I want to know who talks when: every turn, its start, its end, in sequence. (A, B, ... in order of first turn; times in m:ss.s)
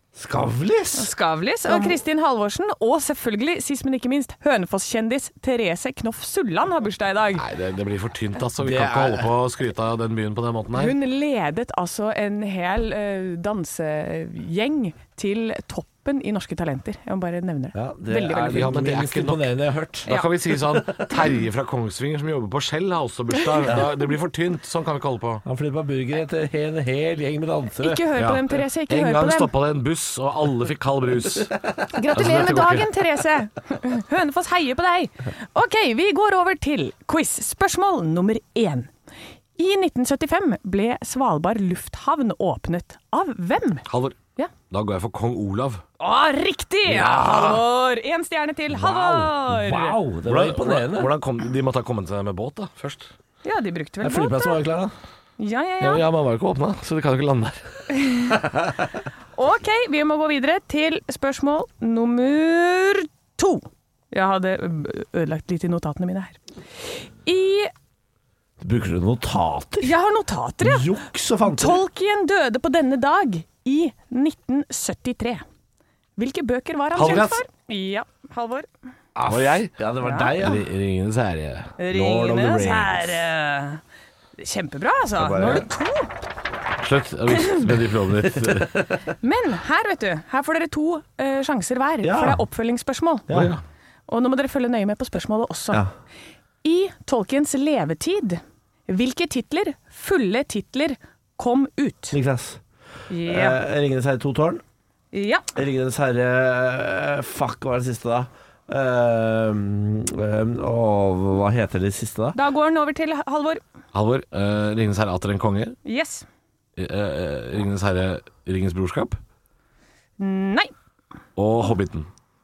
0:00.2-0:01.1 A
0:00.9-0:07.5 B
0:01.7-0:02.0 A
0:07.4-0:10.9 C
0:08.6-0:09.3 A
0:10.7-0:18.7 B
0:17.7-0:21.1 A
0:18.4-0:19.4 C
0:20.0-0:25.4 C
0:25.4-0:28.0 A
0:27.8-0:29.5 B
0:28.2-0:31.5 C
0:31.9-0:38.9 B
0:32.1-0:32.9 C
0:39.6-0:43.8 B
0:43.8-0:45.8 C
0:46.0-0:50.0 B
0:46.9-0:47.6 A
0:48.7-0:51.1 A
0:50.2-0:53.1 C
0:53.4-0:54.6 B
0:54.0-0:54.9 A
0:55.4-0:56.0 B
0:55.8-0:57.6 C
0:57.9-0:58.4 B
0:59.4-1:06.4 B
1:07.0-1:07.7 B
1:08.6-1:09.9 A
1:09.8-1:10.9 B
1:10.6-1:11.8 A
1:11.4-1:15.4 B
1:16.2-1:18.7 B
1:16.9-1:17.4 C
1:17.0-1:17.3 A
1:19.1-1:20.6 A
1:19.2-1:19.7 C
1:20.0-1:20.3 B
1:20.3-1:23.2 C
1:21.8-1:23.8 B
1:24.4-1:26.1 B
1:25.2-1:25.7 A
1:26.8-1:28.8 C
1:27.3-1:27.7 B
1:28.4-1:29.0 A
1:29.2-1:33.3 B
1:32.0-1:32.4 A
1:33.3-1:33.6 C
1:34.1-1:35.8 B
1:36.6-1:42.2 B
1:42.1-1:42.6 A
1:43.1-1:43.6 B
1:43.2-1:44.6 A
1:45.1-1:45.4 B
1:45.5-1:52.4 A
1:52.3-1:53.6 B
1:53.9-1:55.8 C
1:55.8-1:56.2 B
1:56.8-1:59.2 C
2:00.2-2:00.7 B
2:01.4-2:02.1 C